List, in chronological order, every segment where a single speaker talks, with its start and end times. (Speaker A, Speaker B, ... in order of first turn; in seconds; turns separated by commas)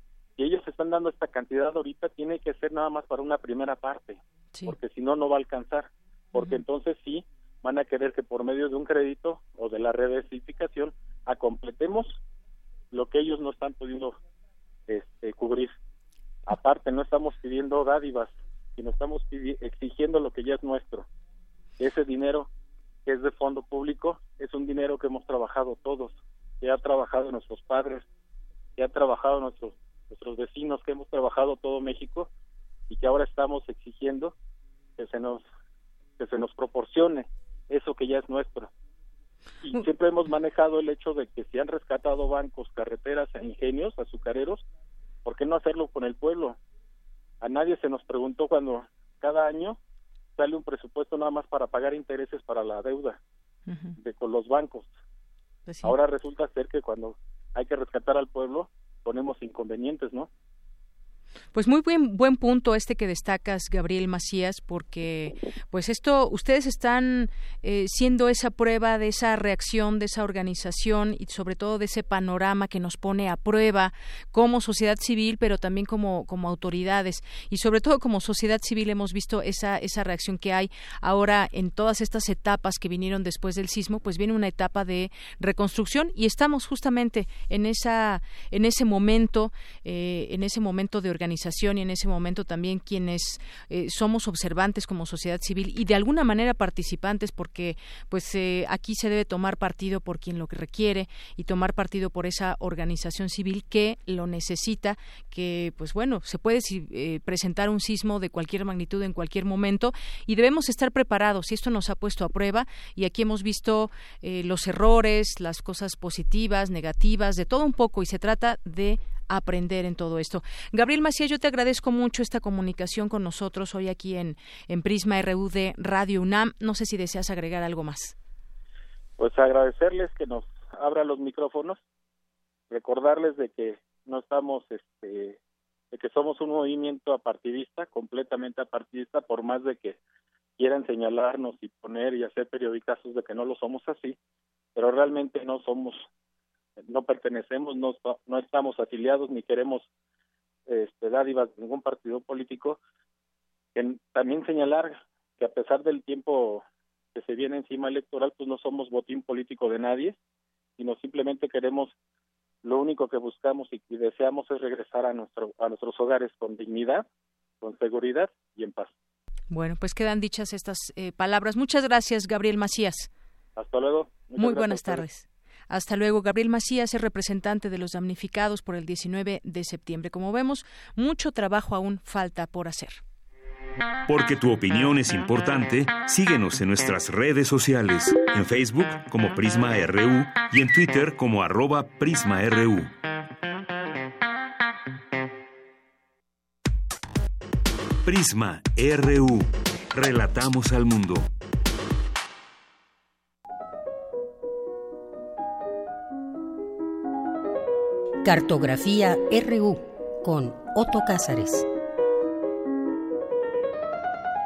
Speaker A: 0.4-12.2, Speaker B: 6.4-6.6, Speaker A: 12.9-14.2, Speaker A: 14.9-15.8, Speaker A: 16.5-21.1, Speaker A: 21.8-22.5, Speaker A: 23.1-28.1, Speaker A: 28.8-32.3, Speaker A: 32.9-34.3, Speaker A: 35.0-35.4, Speaker A: 36.2-38.7, Speaker A: 39.6-44.6, Speaker A: 45.2-46.6, Speaker A: 47.4-49.8, Speaker A: 50.4-53.2, Speaker B: 53.7-54.0, Speaker A: 54.0-54.9, Speaker B: 55.7-55.9, Speaker A: 55.8-60.3, Speaker B: 61.5-128.2, Speaker A: 129.2-131.8, Speaker A: 132.7-135.4, Speaker A: 135.9-140.0, Speaker A: 140.6-144.2, Speaker A: 144.8-146.1, Speaker A: 146.9-149.9, Speaker A: 150.7-152.8, Speaker A: 153.8-156.6, Speaker A: 157.2-160.2, Speaker A: 160.8-161.9, Speaker A: 162.6-167.1, Speaker A: 167.6-168.9, Speaker B: 169.5-173.1, Speaker A: 173.6-175.1, Speaker B: 174.4-183.0, Speaker C: 184.1-192.9, Speaker C: 198.1-201.3, Speaker D: 208.2-211.7